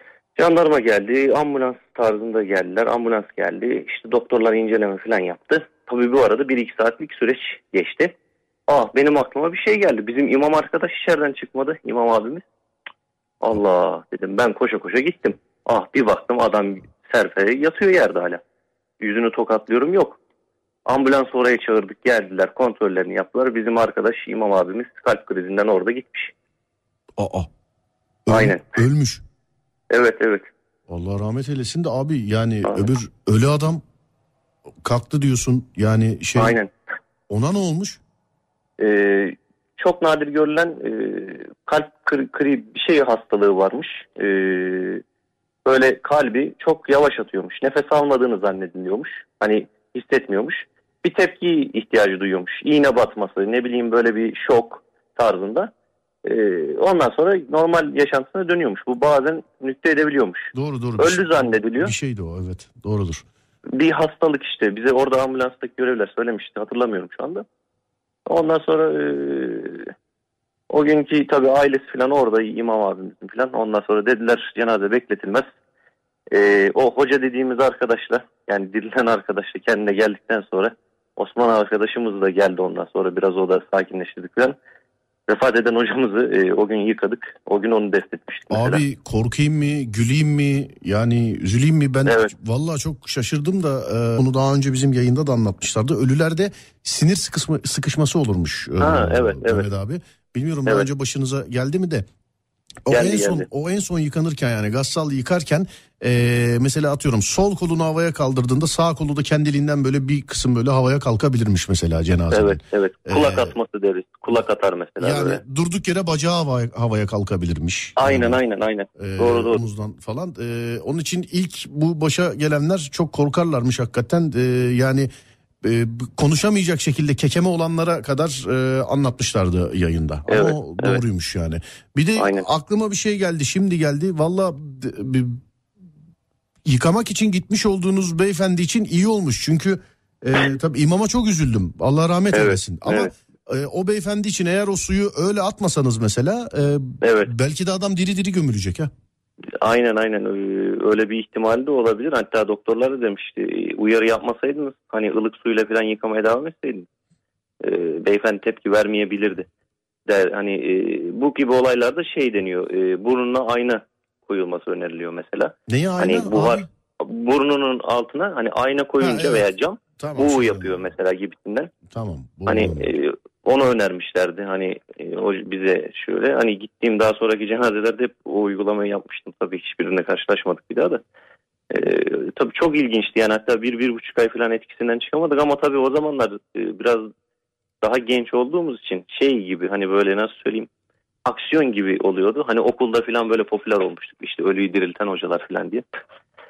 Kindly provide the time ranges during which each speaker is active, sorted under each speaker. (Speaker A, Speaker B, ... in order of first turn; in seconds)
Speaker A: 0.4-8.2, 8.7-12.4, 13.4-18.4, 19.0-20.2, 20.9-26.3, 28.3-28.7, 29.9-30.5, 36.4-36.7, 38.8-45.0, 45.6-55.7, 56.2-61.9, 63.8-67.4, 68.3-69.9, 70.7-75.5, 76.3-84.6, 85.3-88.8, 92.0-92.3, 98.8-99.7, 102.9-103.5, 112.3-115.4, 118.0-119.6, 130.3-131.0, 132.2-132.5, 142.3-143.1, 147.0-147.3, 149.6-156.9, 157.6-159.5, 160.1-171.7, 172.5-181.0, 181.7-187.1, 187.8-190.7, 191.3-195.8
Speaker B: 27.2-27.5, 28.3-29.2, 30.9-33.8, 34.8-36.6, 37.3-38.0, 60.5-63.3, 88.5-102.0, 102.9-113.5, 115.0-118.4, 119.0-125.1, 125.6-135.4, 136.7-148.9, 165.7-166.7, 169.0-170.8, 171.9-172.9